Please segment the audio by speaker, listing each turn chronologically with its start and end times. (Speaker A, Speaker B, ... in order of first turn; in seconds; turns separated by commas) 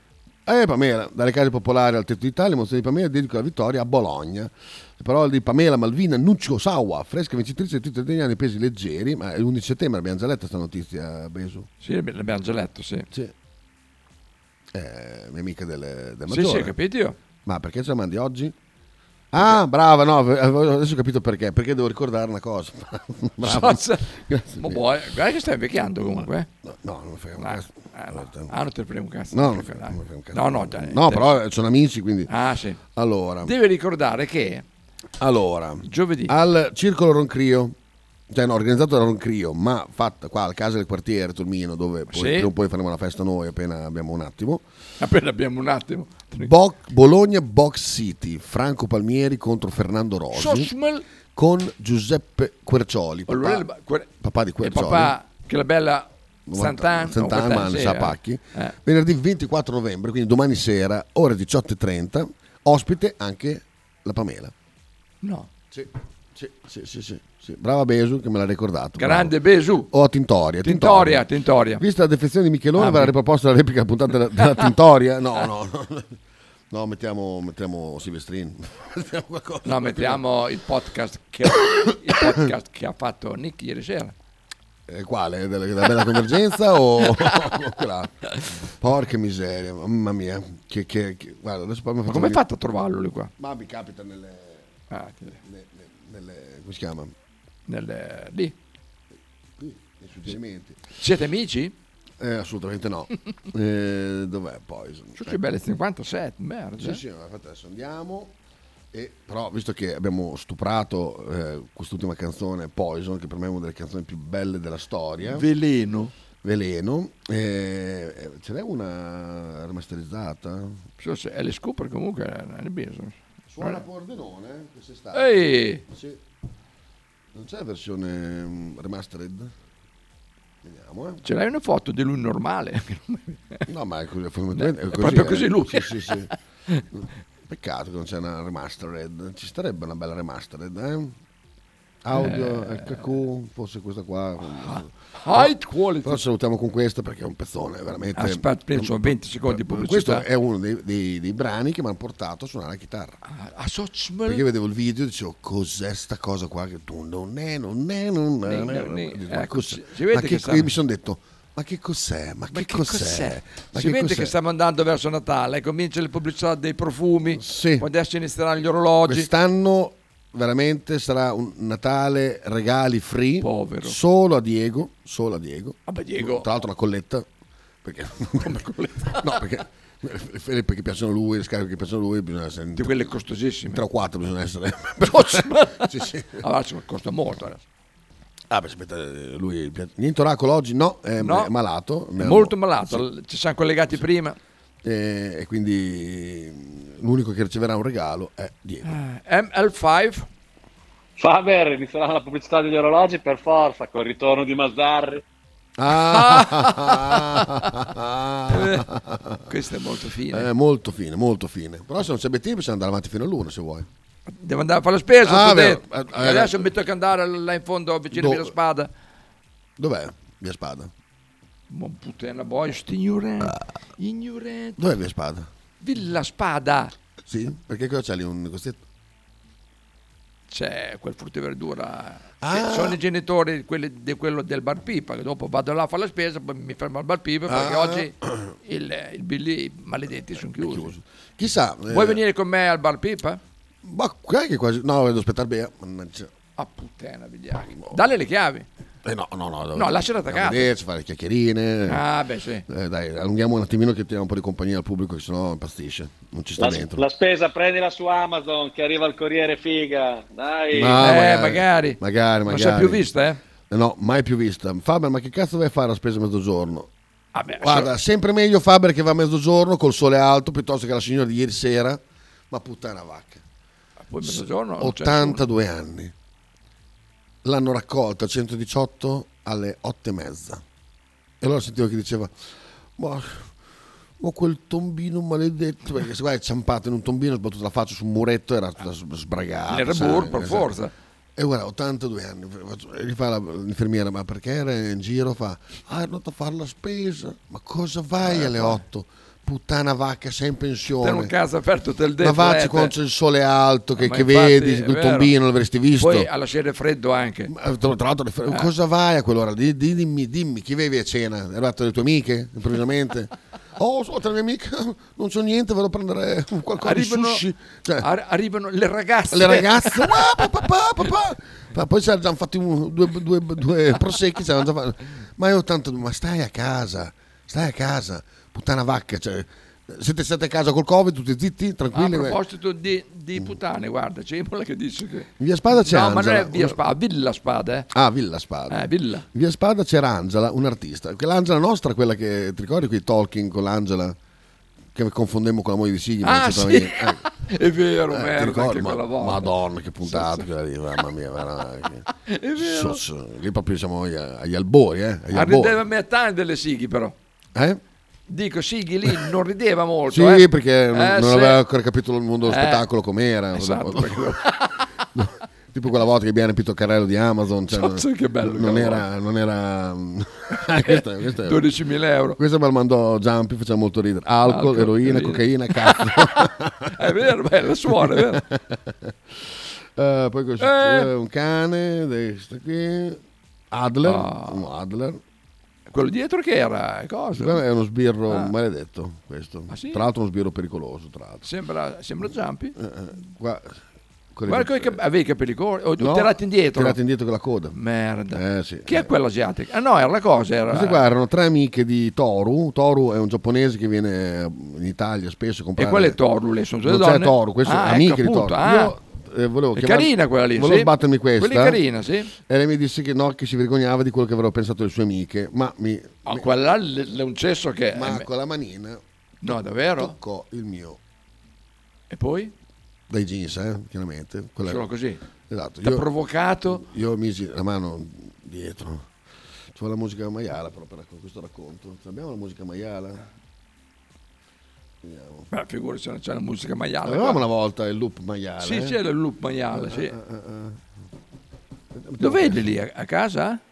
Speaker A: 0.5-11.7, Speaker B: 11.8-13.1, Speaker A: 14.7-16.7, Speaker B: 16.3-17.1, Speaker A: 17.4-18.5, Speaker A: 19.3-24.8, Speaker B: 23.4-24.1, Speaker B: 24.6-26.5, Speaker A: 26.6-28.5, Speaker B: 27.4-31.4, Speaker A: 29.3-32.3, Speaker B: 32.3-32.8, Speaker A: 33.0-33.5, Speaker B: 33.4-34.6, Speaker A: 35.2-37.7, Speaker B: 35.9-36.3, Speaker A: 38.3-44.6, Speaker B: 42.1-42.5, Speaker B: 45.0-46.5, Speaker A: 46.4-50.7, Speaker B: 50.3-51.0, Speaker A: 51.3-53.6, Speaker B: 53.3-54.1, Speaker A: 54.2-55.1, Speaker B: 54.6-58.7, Speaker A: 56.5-64.5, Speaker B: 65.2-65.5, Speaker A: 65.7-69.3, Speaker B: 69.0-69.9, Speaker A: 69.9-71.2, Speaker B: 70.6-71.8, Speaker A: 71.8-76.1, Speaker B: 72.8-73.1, Speaker A: 76.7-80.2, Speaker B: 79.6-84.1, Speaker A: 84.9-88.2, Speaker B: 87.0-87.3, Speaker A: 88.8-92.4, Speaker B: 92.1-93.3, Speaker A: 93.4-94.6, Speaker B: 94.9-95.4, Speaker A: 95.4-97.1, Speaker B: 97.7-98.5, Speaker A: 99.6-100.8, Speaker B: 101.0-101.7, Speaker A: 102.2-105.4, Speaker B: 105.2-107.0, Speaker A: 106.8-108.3, Speaker A: 108.9-115.4, Speaker B: 115.2-116.1, Speaker A: 116.4-120.8, Speaker B: 121.0-123.8, Speaker A: 123.5-126.2, Speaker B: 125.1-125.8, Speaker A: 127.3-129.5, Speaker A: 130.6-131.2, Speaker B: 131.2-133.6, Speaker A: 133.7-136.3, Speaker B: 134.5-136.2, Speaker A: 137.5-141.2, Speaker A: 142.0-145.5, Speaker B: 142.1-143.0, Speaker B: 144.5-146.2, Speaker A: 146.0-153.2, Speaker B: 148.2-150.2, Speaker B: 153.3-154.4, Speaker A: 154.2-164.3, Speaker B: 158.4-160.7, Speaker B: 162.5-169.3, Speaker A: 167.3-167.8, Speaker A: 169.1-177.3, Speaker B: 173.4-173.9, Speaker B: 175.9-176.5, Speaker A: 177.8-178.6, Speaker B: 178.4-179.4, Speaker A: 179.1-182.9, Speaker B: 182.8-183.8, Speaker A: 183.7-186.4, Speaker B: 185.1-187.6, Speaker A: 188.5-193.0, Speaker B: 191.2-191.5, Speaker B: 192.2-194.4, Speaker A: 194.8-198.9, Speaker B: 198.8-200.2, Speaker C: 201.2-205.2, Speaker A: 205.8-209.4, Speaker B: 205.9-207.7, Speaker B: 208.5-208.9, Speaker B: 209.5-210.5, Speaker A: 210.3-213.9, Speaker B: 214.3-218.9, Speaker A: 215.2-216.7, Speaker A: 218.1-218.5, Speaker A: 219.8-220.9, Speaker B: 221.7-224.8, Speaker A: 224.8-225.5, Speaker B: 225.8-226.9, Speaker A: 227.2-228.8, Speaker B: 230.5-238.1, Speaker A: 232.4-233.0, Speaker A: 237.5-238.5, Speaker B: 238.6-240.9, Speaker A: 240.5-242.2, Speaker B: 241.9-243.4, Speaker A: 243.8-246.3, Speaker B: 246.6-248.7, Speaker A: 247.7-248.0, Speaker A: 249.0-252.0, Speaker B: 249.7-250.7, Speaker B: 251.9-252.6, Speaker A: 252.7-257.0, Speaker C: 256.6-261.0, Speaker A: 260.7-263.0, Speaker B: 261.0-263.4, Speaker A: 263.7-266.9, Speaker B: 267.3-267.9, Speaker A: 267.6-273.4, Speaker B: 274.1-275.4, Speaker A: 274.2-276.1, Speaker A: 277.4-280.6, Speaker A: 281.4-282.3, Speaker A: 283.0-283.5, Speaker A: 284.2-290.7, Speaker B: 289.7-290.9, Speaker A: 291.4-301.3, Speaker B: 298.2-298.8, Speaker B: 301.0-302.9, Speaker A: 302.2-306.3, Speaker B: 304.0-305.3, Speaker B: 306.0-307.5, Speaker A: 307.5-318.1, Speaker B: 316.8-317.4, Speaker B: 318.0-320.4, Speaker A: 319.3-332.4, Speaker B: 331.9-337.9, Speaker A: 335.4-336.8, Speaker A: 337.9-344.1, Speaker B: 338.7-339.2, Speaker A: 344.9-347.2, Speaker B: 346.2-349.5, Speaker A: 348.1-355.8, Speaker B: 350.0-350.5, Speaker B: 352.2-353.0, Speaker B: 355.3-357.1, Speaker A: 357.5-357.8, Speaker B: 358.3-361.6, Speaker A: 360.1-364.4, Speaker B: 362.4-362.8, Speaker B: 363.5-364.9, Speaker A: 365.1-371.6, Speaker B: 367.7-369.0, Speaker B: 370.9-372.4, Speaker A: 372.4-377.0, Speaker B: 374.4-378.4, Speaker A: 377.9-385.2, Speaker B: 380.6-381.1, Speaker B: 384.0-384.6, Speaker B: 385.9-387.6, Speaker A: 387.4-391.4, Speaker B: 388.3-388.5, Speaker B: 389.7-390.1, Speaker B: 391.4-392.7, Speaker A: 392.8-393.8, Speaker A: 394.3-395.0, Speaker B: 394.5-397.0, Speaker A: 396.0-397.8, Speaker B: 397.7-401.0, Speaker A: 398.3-399.1, Speaker A: 400.7-406.2, Speaker B: 405.8-408.9, Speaker A: 406.8-411.8, Speaker B: 409.8-412.3, Speaker A: 412.4-416.4, Speaker B: 416.2-418.2, Speaker A: 417.9-421.0, Speaker B: 419.4-420.1, Speaker B: 422.1-422.5, Speaker A: 423.1-424.9, Speaker B: 424.6-425.2, Speaker A: 425.5-426.1, Speaker B: 425.8-426.8, Speaker A: 426.7-429.1, Speaker A: 429.7-433.2, Speaker A: 435.0-435.5, Speaker B: 435.5-437.4, Speaker A: 437.0-439.0, Speaker B: 438.6-440.1, Speaker A: 439.7-440.8, Speaker A: 441.9-442.7, Speaker B: 442.2-443.6